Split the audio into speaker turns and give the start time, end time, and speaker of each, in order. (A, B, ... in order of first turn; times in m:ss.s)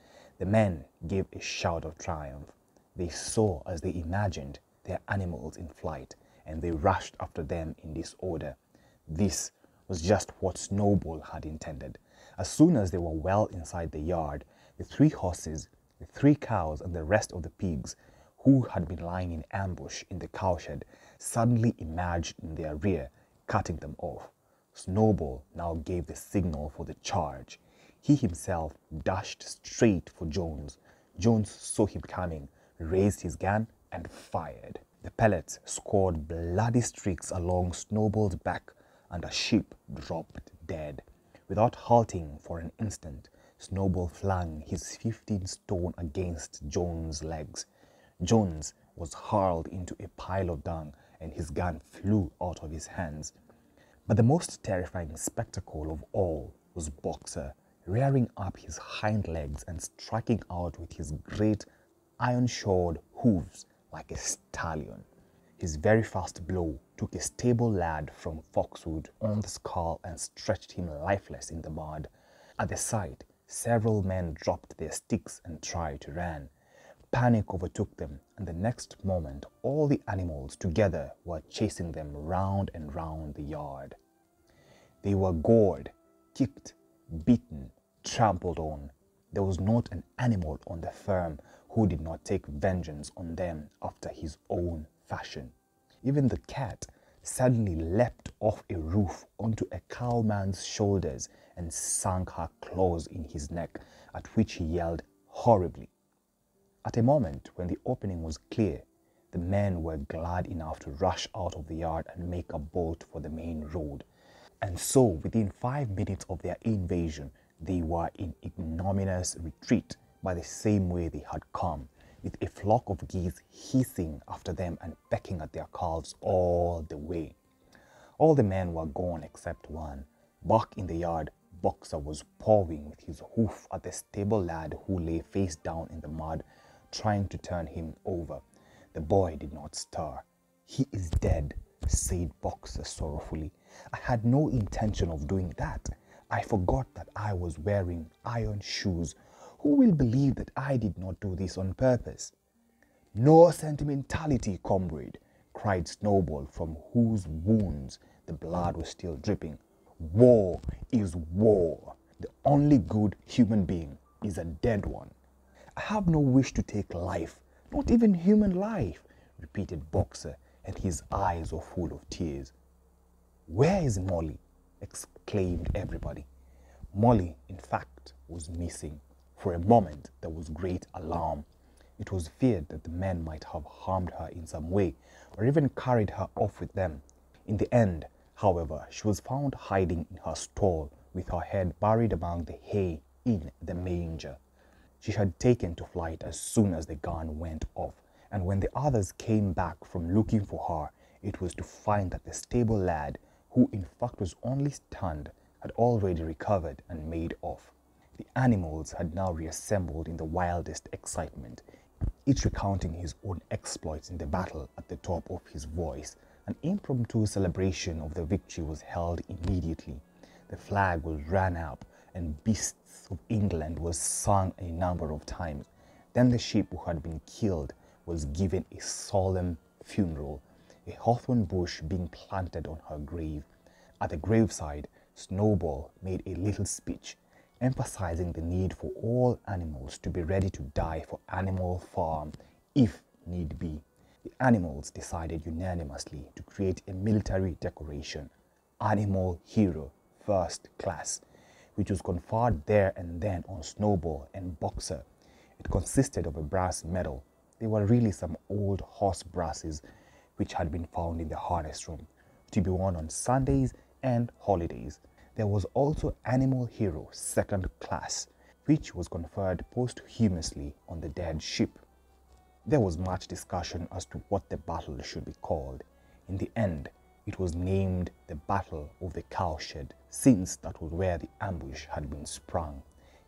0:00.4-0:47.6 A
0:48.2-0:53.3 A
0:54.1-1:01.7 A
1:02.2-1:05.0 A
1:05.6-1:16.5 A
1:17.1-1:24.0 A
1:25.0-1:45.9 A
1:46.8-1:54.0 A
1:54.6-2:07.4 A
2:08.2-2:18.4 A
2:18.9-2:32.3 A
2:33.1-2:45.1 A
2:45.8-2:52.5 A
2:53.5-2:56.3 A
2:56.9-3:01.4 A
3:02.0-3:14.4 A
3:15.0-3:31.6 A
3:32.2-3:53.5 A
3:54.0-4:03.8 A
4:04.4-4:11.2 A
4:11.8-4:15.0 A
4:15.6-4:19.8 A
4:20.4-4:31.8 A
4:32.6-4:42.8 A